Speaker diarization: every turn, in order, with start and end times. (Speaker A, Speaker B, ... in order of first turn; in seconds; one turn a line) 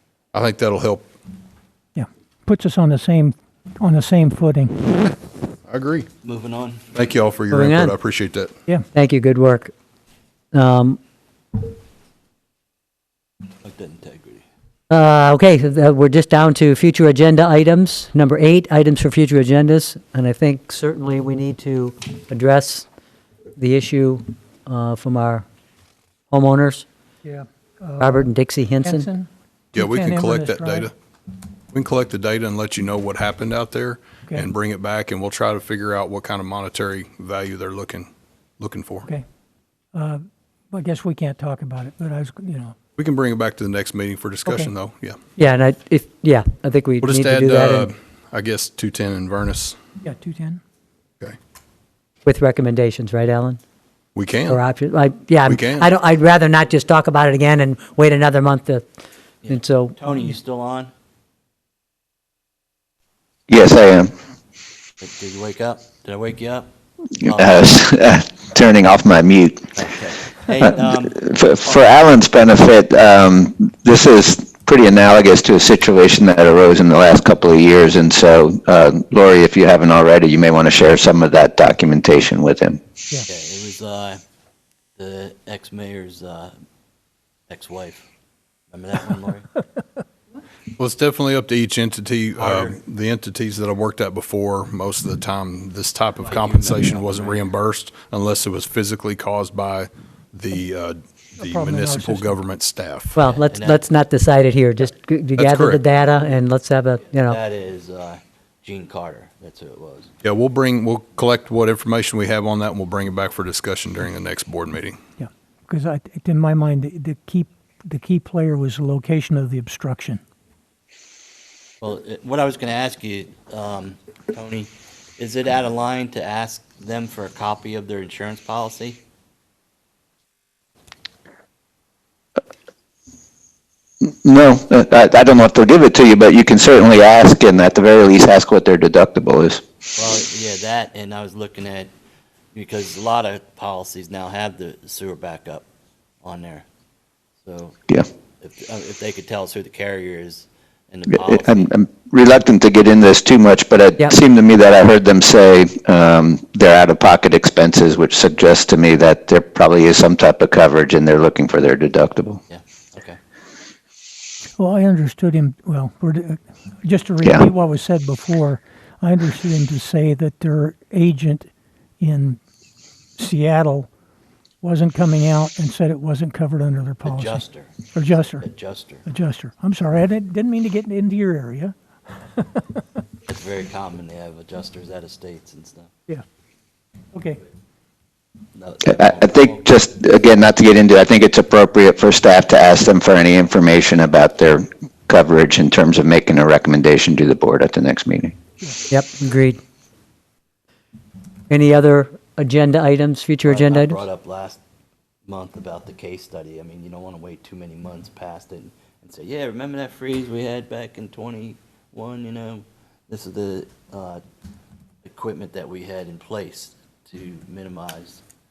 Speaker A: 0.3-1.1
Speaker B: 1.9-5.1
Speaker A: 5.7-6.1
Speaker C: 6.2-6.9
Speaker A: 6.9-8.5
Speaker D: 7.5-7.9
Speaker D: 8.9-9.7
Speaker D: 10.5-11.0
Speaker C: 13.6-14.4
Speaker D: 14.9-22.9
Speaker D: 23.6-25.4
Speaker D: 26.3-26.9
Speaker B: 27.2-30.9
Speaker D: 28.0-29.1
Speaker A: 29.7-30.9
Speaker A: 31.7-38.1
Speaker A: 38.6-39.1
Speaker B: 39.9-42.7
Speaker A: 43.0-45.2
Speaker D: 45.4-47.9
Speaker A: 47.0-49.8
Speaker B: 50.0-50.6
Speaker D: 52.2-53.6
Speaker A: 54.1-54.6
Speaker D: 54.5-58.8
Speaker A: 55.4-55.9
Speaker C: 59.4-60.9
Speaker D: 59.5-60.0
Speaker E: 63.5-64.1
Speaker C: 65.0-66.7
Speaker C: 67.2-67.8
Speaker E: 67.2-69.8
Speaker C: 69.7-71.8
Speaker E: 70.7-82.8
Speaker C: 83.2-84.2
Speaker C: 85.0-86.5
Speaker C: 87.5-88.0
Speaker C: 88.7-89.5
Speaker A: 90.8-103.2
Speaker C: 92.4-92.7
Speaker C: 96.2-97.4
Speaker B: 101.4-102.4
Speaker D: 103.1-107.4
Speaker C: 103.2-103.8
Speaker A: 105.4-105.8
Speaker C: 107.1-110.1
Speaker A: 110.2-115.0
Speaker B: 115.2-120.2
Speaker C: 121.8-129.0
Speaker E: 134.0-139.6
Speaker C: 139.9-141.9
Speaker C: 142.5-145.7
Speaker C: 146.2-146.7
Speaker C: 147.4-147.8
Speaker C: 148.4-151.7
Speaker E: 151.1-162.4
Speaker C: 162.5-163.2
Speaker B: 164.6-172.4
Speaker B: 173.2-173.9
Speaker B: 174.6-177.4
Speaker C: 177.0-177.7
Speaker B: 177.9-178.4
Speaker C: 178.3-179.0
Speaker B: 179.0-182.8
Speaker C: 183.3-185.9
Speaker B: 187.1-187.4
Speaker C: 188.5-189.7
Speaker E: 188.8-198.3
Speaker D: 198.9-199.6
Speaker D: 201.5-204.0
Speaker C: 203.4-204.6
Speaker C: 205.2-214.2
Speaker C: 215.0-218.2